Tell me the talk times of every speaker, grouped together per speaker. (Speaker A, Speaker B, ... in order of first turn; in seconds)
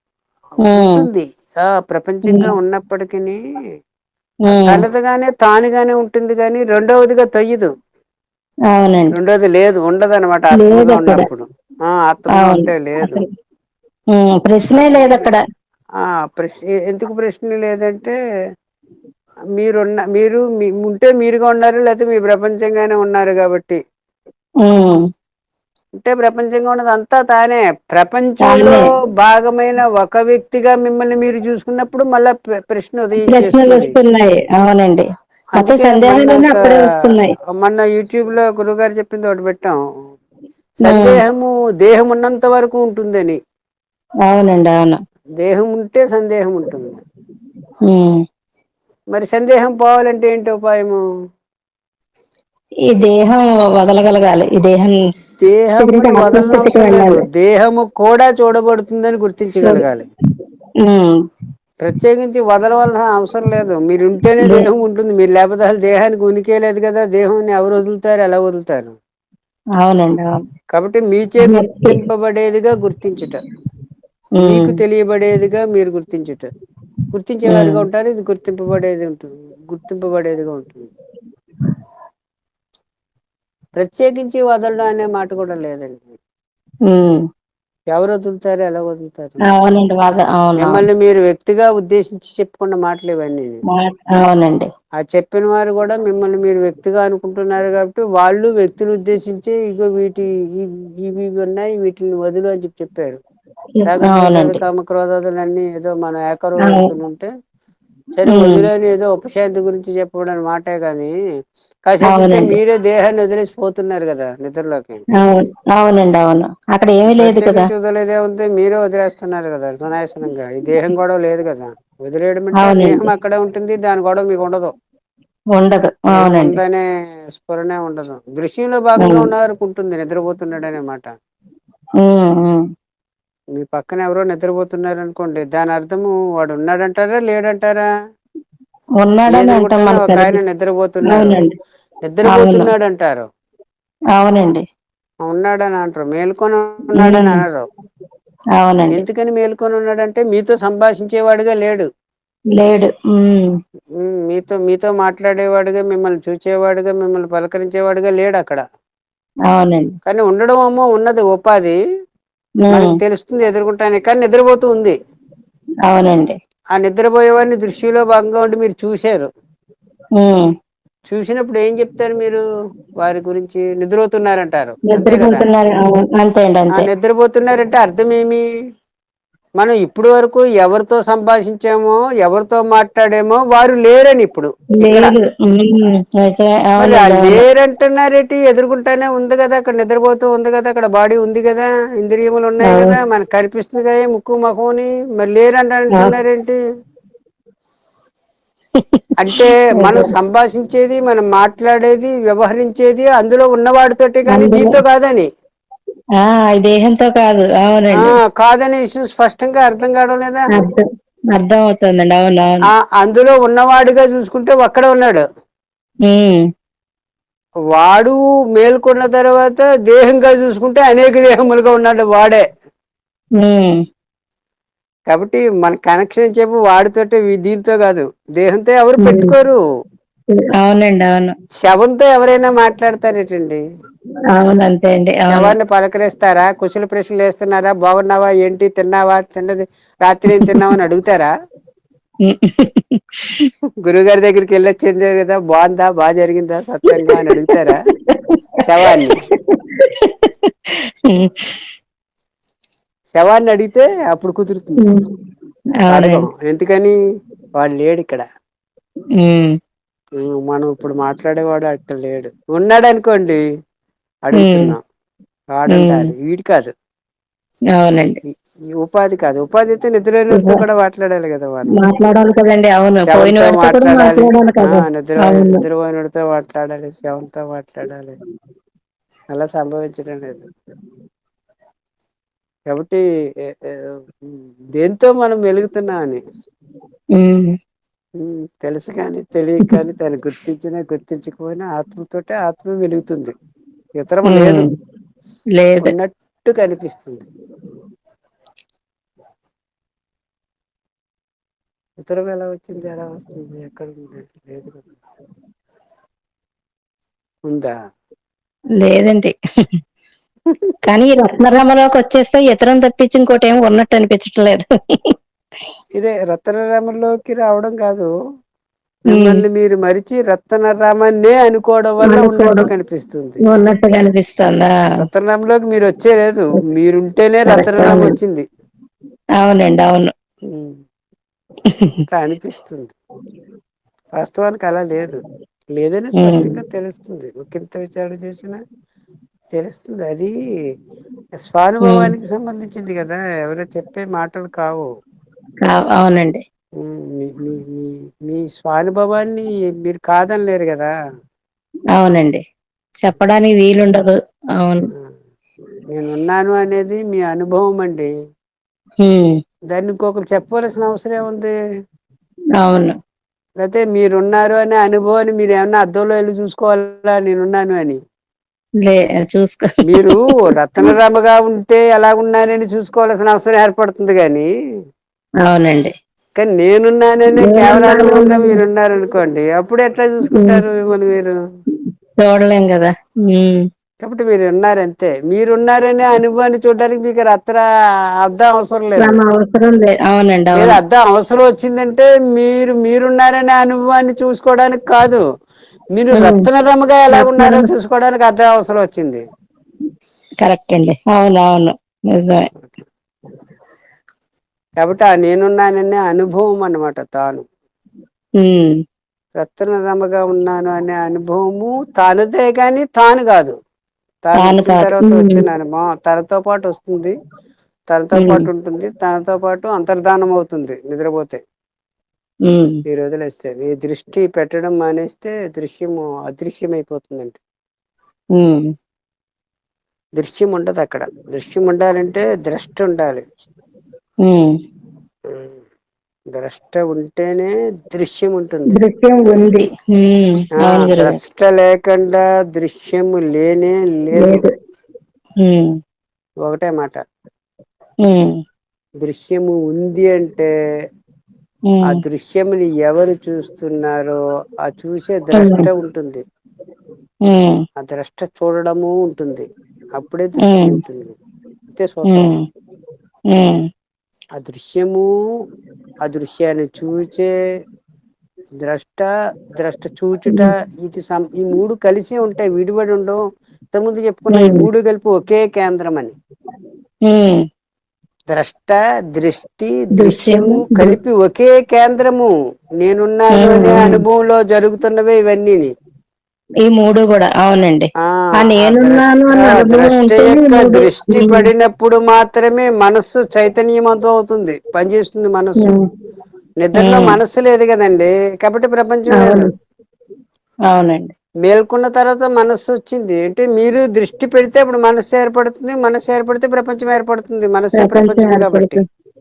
Speaker A: 0.7-3.4, 4.5-7.7, 9.1-13.2, 14.7-15.3, 16.0-18.1, 19.6-23.8, 26.0-33.9, 35.5-36.7, 37.6-39.8, 40.8-43.4, 45.4-47.0, 49.1-51.0, 55.4-60.0, 61.8-68.9, 70.7-73.4, 74.4-76.5, 77.1-80.9, 83.8-86.2, 87.9-89.4, 90.6-93.6, 95.0-103.2, 103.9-107.3, 108.2-111.1, 111.9-115.0, 117.0-124.7, 126.1-131.1, 133.6-137.8, 139.3-141.4, 142.1-143.2, 145.2-147.7, 148.9-151.9, 154.0-158.6, 160.1-161.8, 162.7-164.9, 166.7-169.3, 171.1-172.4, 173.0-175.4, 176.7-178.4, 179.6-185.1, 186.8-196.6, 199.2-205.3, 208.0-210.4, 212.8-215.2, 217.7-222.4, 225.1-229.6, 231.6-233.6, 235.3-241.3, 243.8-247.8, 248.6-249.2, 253.2-254.8, 255.9-256.9, 257.6-258.2, 260.2-263.4, 264.3-264.8, 265.5-266.7, 268.8-271.7, 273.1-278.1, 279.3-280.5, 282.7-283.0, 284.3-286.2, 288.2-293.3, 294.0-294.6, 295.8-297.2, 302.0-304.9, 307.5-307.7, 316.0-318.1, 319.1-323.4, 325.0-328.4, 330.5-330.8, 332.1-332.9, 334.2-335.2, 335.7-338.6, 339.5-340.3, 341.4-344.9, 346.8-350.9, 355.9-358.1, 359.7-361.5, 363.6-368.0, 369.9-374.5, 376.4-381.3, 384.0-387.6, 388.2-389.2, 390.5-395.2, 395.9-399.2, 404.8-407.4, 409.4-413.5, 414.2-417.1, 417.9-421.4, 422.9-427.4, 430.2-433.2, 435.3-435.6, 436.3-438.8, 440.6-444.4, 446.4-447.0, 449.0-450.5, 451.9-456.2, 457.8-461.1, 461.7-462.3, 464.4-465.1, 466.0-467.3, 468.6-473.2, 473.7-476.1, 478.3-482.3, 482.8-485.7, 488.0-495.7, 496.6-499.5, 501.4-508.8
Speaker B: 0.7-1.0, 4.5-4.8, 8.7-9.1, 10.5-11.2, 12.3-13.2, 14.1-15.4, 24.6-25.0, 28.4-28.9, 33.2-35.0, 35.6-37.3, 40.8-41.2, 44.2-45.0, 47.9-48.2, 52.9-55.0, 55.7-57.2, 60.8-61.2, 69.8-70.4, 71.4-72.0, 74.4-74.7, 77.5-77.8, 86.9-87.2, 89.5-90.8, 93.7-94.7, 103.8-104.6, 108.3-108.7, 112.1-112.5, 115.2-117.6, 122.6-123.0, 125.5-126.6, 129.0-129.3, 132.0-132.6, 139.0-140.4, 141.1-141.5, 142.3-142.7, 144.2-144.6, 146.9-147.4, 148.6-149.0, 152.6-153.5, 159.5-159.9, 162.6-162.9, 165.9-166.4, 170.2-170.5, 174.9-176.9, 184.8-187.4, 192.7-193.0, 198.8-200.1, 204.3-204.8, 206.2-208.1, 210.5-212.6, 216.1-216.4, 223.4-223.8, 229.0-229.3, 230.3-231.3, 234.3-235.5, 242.3-243.5, 247.1-250.5, 251.1-251.6, 255.8-256.2, 259.2-259.5, 264.4-264.8, 265.7-266.1, 267.8-268.2, 270.3-270.6, 271.7-275.6, 287.1-287.5, 294.3-294.6, 295.6-295.9, 308.8-309.3, 310.9-315.1, 319.1-319.4, 322.0-322.7, 323.4-324.7, 327.5-328.1, 329.4-330.1, 336.2-336.5, 345.6-346.4, 351.9-352.4, 353.0-354.8, 359.0-359.3, 362.6-362.9, 368.8-370.0, 375.4-375.9, 377.4-378.6, 380.3-380.6, 382.2-383.6, 389.0-390.8, 396.1-396.5, 397.1-397.7, 400.4-402.5, 408.4-408.7, 414.4-415.4, 418.2-418.4, 422.5-422.8, 428.4-428.6, 434.2-434.5, 438.7-441.2, 444.2-444.5, 445.4-445.7, 448.0-448.3, 451.7-452.0, 455.4-455.7, 457.3-457.6, 460.4-460.8, 462.1-462.4, 463.3-463.6, 474.3-474.7, 477.1-477.4, 480.0-480.9, 483.3-484.0, 486.6-491.5, 496.8-497.1, 499.1-499.5, 500.7-501.1, 507.8-508.8